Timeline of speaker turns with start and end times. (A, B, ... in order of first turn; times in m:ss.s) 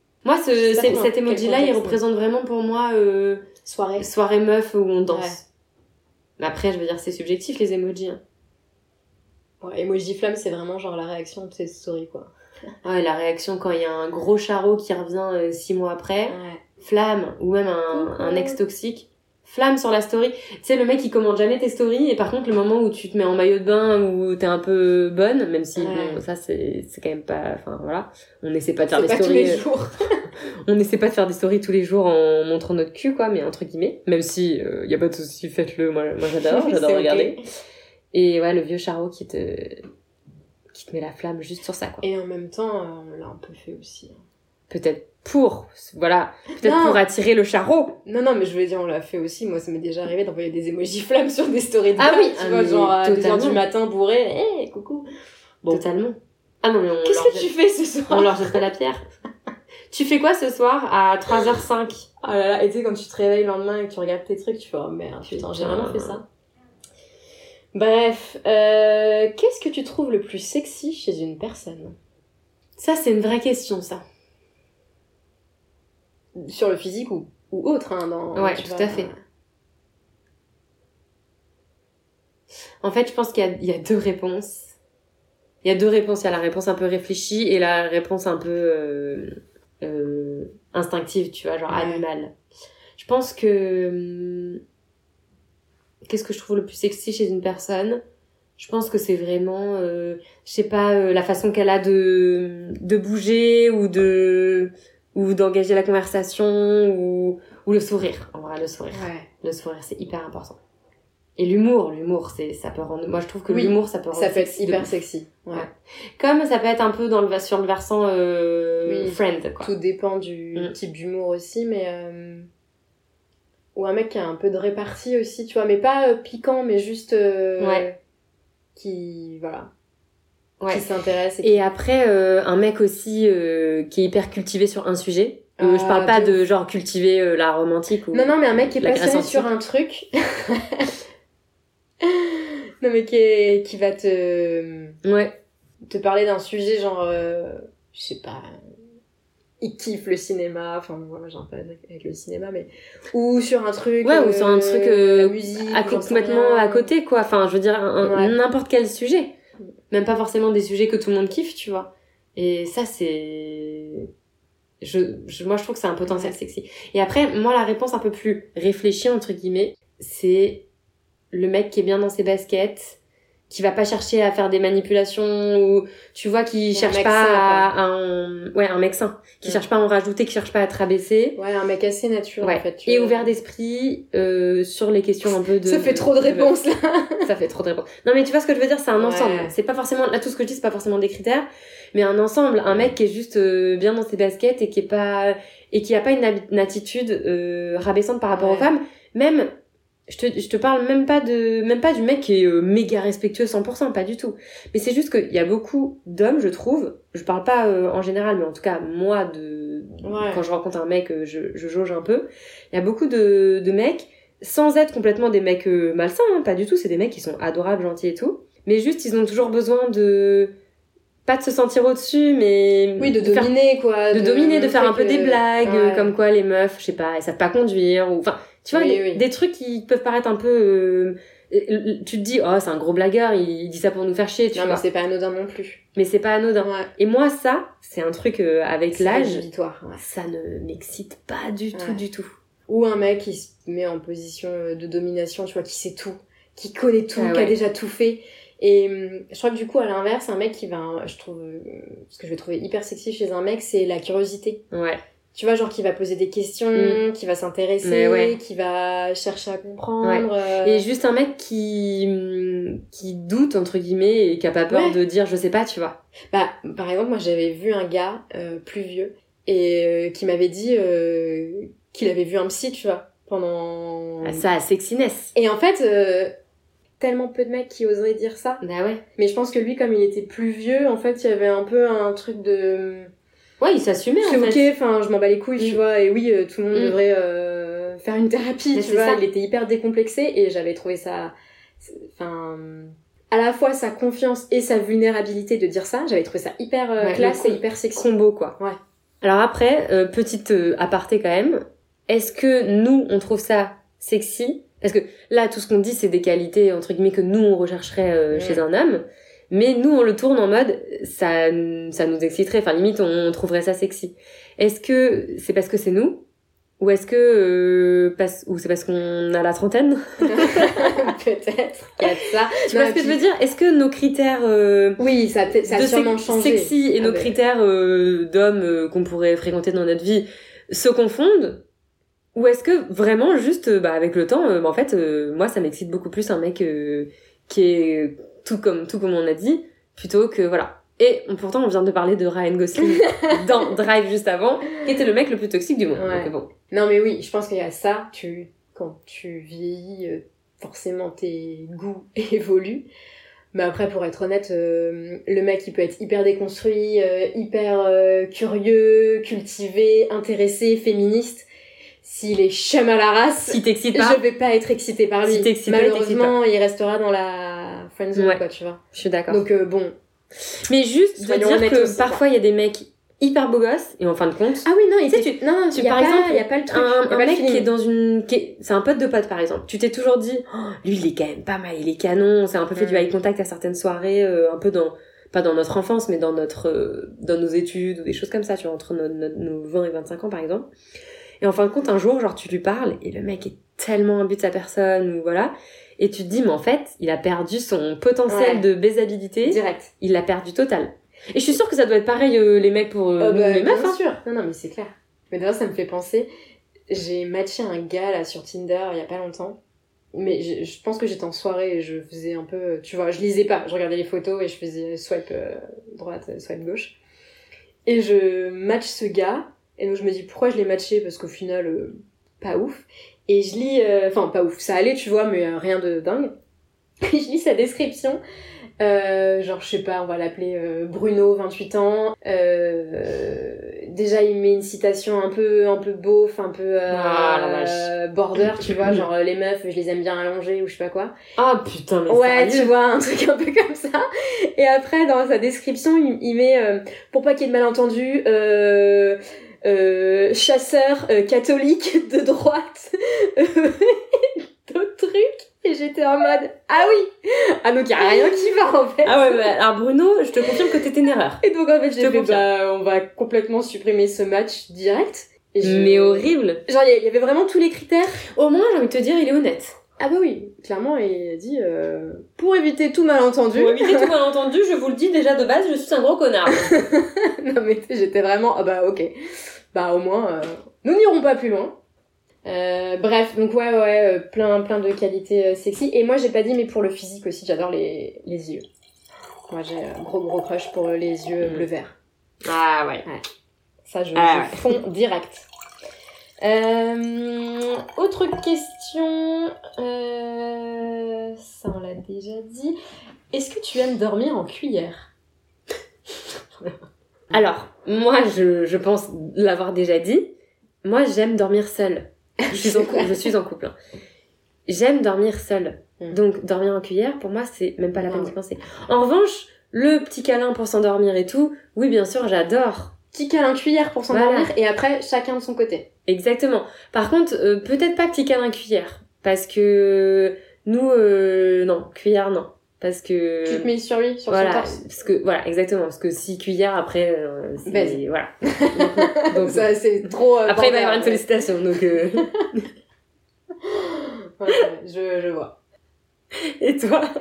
0:00.2-0:03.5 A
0:00.6-0:02.0 B
0:03.6-0:04.1 B
0:04.0-0:05.4 A
0:05.1-0:05.4 B
0:06.4-0:08.2 A
0:09.6-0:12.3 B
0:12.8-0:29.6 A
0:16.3-0:16.6 B
0:17.9-0:18.6 B
0:25.8-0:26.2 B
0:28.9-0:29.9 B
0:30.7-0:37.4 A
0:36.4-0:37.4 B
0:38.1-0:39.8 A
0:40.7-0:42.0 A
0:42.0-0:44.2 B
0:44.7-0:48.0 A
0:46.6-0:47.0 B
0:48.0-0:55.1 B
0:52.0-0:53.6 A
0:55.7-0:57.5 A
0:57.0-0:58.6 B
0:58.1-0:59.0 A
0:59.9-1:02.1 A
1:02.2-1:06.2 B
1:05.3-1:06.2 A
1:07.7-1:12.0 B
1:12.8-1:14.0 A
1:16.4-1:19.2 B
1:18.4-1:19.1 A
1:22.8-1:24.7 A
1:25.6-1:32.3 A
1:31.7-1:32.0 B
1:33.0-1:34.6 A
1:36.1-1:38.0 A
1:38.6-1:50.6 A
1:48.9-1:49.3 B
1:51.4-1:54.9 A
1:53.5-1:55.7 B
1:55.5-1:59.7 A
1:58.9-2:02.5 B
2:03.8-2:08.0 B
2:07.6-2:07.9 A
2:08.8-2:09.7 B
2:10.7-2:11.6 B
2:11.4-2:19.5 A
2:15.6-2:16.4 B
2:18.1-2:21.0 B
2:22.0-2:25.0 B
2:25.0-2:25.3 A
2:25.9-2:28.6 B
2:29.6-2:36.9 B
2:34.0-2:39.4 A
2:38.0-2:38.4 B
2:39.9-2:44.1 A
2:44.8-2:50.7 A
2:46.1-2:46.3 B
2:51.3-2:53.0 A
2:53.5-3:01.4 A
2:56.7-2:57.7 B
3:01.4-3:03.3 B
3:02.4-3:06.5 A
3:05.5-3:07.3 B
3:07.2-3:19.5 A
3:09.0-3:09.5 B
3:12.7-3:12.9 B
3:18.3-3:18.7 B
3:20.1-3:40.5 A
3:30.0-3:30.4 B
3:41.3-3:43.5 A
3:43.0-3:46.1 B
3:44.1-3:54.8 A
3:48.7-3:49.2 B
3:54.5-3:55.8 B
3:56.0-3:59.4 A
3:56.6-3:56.9 B
3:58.9-4:00.0 B
4:00.0-4:02.4 A
4:01.8-4:02.0 B
4:02.7-4:14.6 B
4:07.2-4:07.6 A
4:14.7-4:15.0 A
4:15.3-4:20.9 B
4:16.8-4:17.0 A
4:17.8-4:18.4 A
4:20.0-4:26.0 A
4:24.7-4:25.0 B
4:26.3-4:34.4 B
4:34.2-4:35.3 A
4:35.4-4:36.3 B
4:37.0-4:38.6 B
4:38.6-4:39.0 A
4:39.2-4:43.1 B
4:43.6-4:44.7 A
4:44.2-4:58.1 B
4:48.7-4:49.2 A
4:57.0-4:58.6 A
4:59.2-5:16.2 A
5:08.3-5:08.6 B
5:16.8-5:21.0 A
5:20.3-5:23.2 B
5:22.6-5:25.0 A
5:25.0-5:27.3 B
5:25.7-5:31.6 A
5:32.4-5:46.5 A
5:43.0-5:43.4 B
5:46.0-5:52.9 B
5:53.5-6:01.5 B
6:02.0-6:09.9 B
6:03.5-6:04.2 A
6:05.3-6:06.4 A
6:08.2-6:08.4 A
6:08.9-6:09.4 A
6:10.7-6:30.7 A
6:11.2-6:12.2 B
6:14.6-6:17.7 B
6:22.8-6:23.1 B
6:31.4-6:44.0 A
6:38.3-6:38.7 B
6:39.4-6:39.9 B
6:43.2-6:46.3 B
6:46.9-6:49.6 B
6:50.1-6:57.0 B
6:57.9-7:06.3 B
7:07.0-7:08.2 B
7:08.8-7:21.1 B
7:16.9-7:17.9 A
7:21.4-7:22.7 A
7:22.1-7:39.5 B
7:39.0-7:41.4 A
7:40.4-7:40.8 B
7:41.4-7:48.2 B
7:42.0-7:42.4 A
7:45.6-7:46.6 A
7:48.3-7:49.8 A
7:50.0-7:54.1 B
7:53.6-7:56.9 A
7:56.5-7:59.1 B
7:59.7-8:01.8 B
8:02.4-8:08.6 B
8:09.5-8:12.0 B
8:11.4-8:11.7 A
8:12.4-8:13.1 A
8:13.8-8:15.5 B
8:14.2-8:14.8 A
8:16.4-8:22.8 B
8:23.3-8:25.1 B
8:27.3-8:30.3 A
8:30.8-8:33.7 A
8:32.4-8:33.3 B
8:34.7-8:42.9 A
8:38.0-8:38.4 B
8:43.1-8:45.9 B
8:44.1-8:44.5 A
8:46.1-8:53.7 A
8:53.5-8:54.8 B
8:54.3-8:59.7 A
8:57.7-9:01.3 B
9:00.4-9:02.7 A
9:03.6-9:05.6 B
9:06.4-9:07.1 A